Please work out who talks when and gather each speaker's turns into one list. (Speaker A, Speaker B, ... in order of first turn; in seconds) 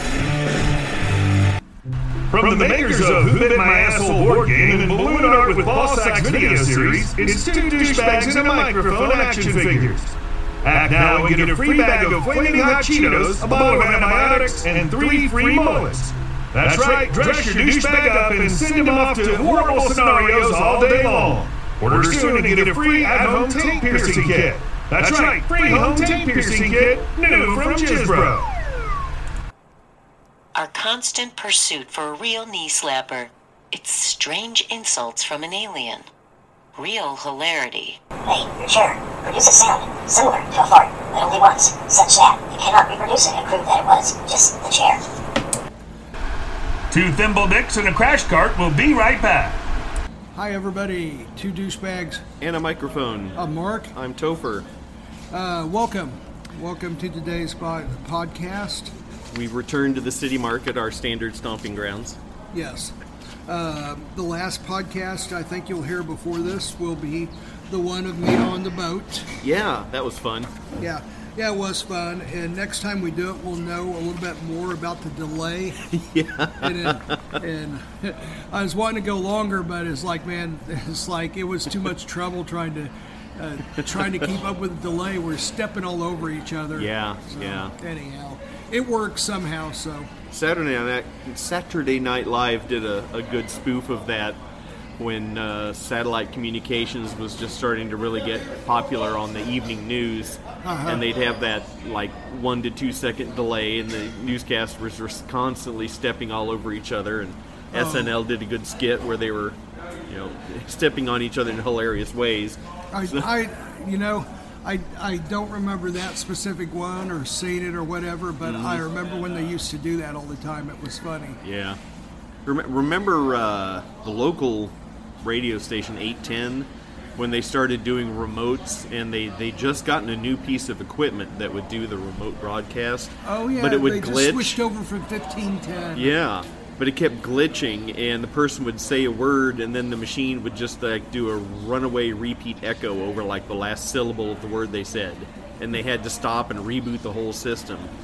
Speaker A: 2.3-28.5, 46.9-49.6
Speaker B: 30.5-36.0, 36.8-38.0
Speaker C: 38.2-45.2
Speaker D: 50.3-52.2, 53.4-53.9, 55.3-58.9, 62.5-63.0, 63.5-69.3, 70.8-75.9, 76.6-90.1, 100.6-101.0, 107.7-108.2, 112.9-121.4, 133.2-136.1
Speaker E: 52.4-53.4, 53.9-54.7, 59.3-62.2, 69.4-70.6, 75.9-77.2, 83.8-84.1, 86.8-87.7, 90.3-94.4, 95.0-113.3, 118.4-118.9, 121.4-121.8, 122.5-134.6, 135.9-147.9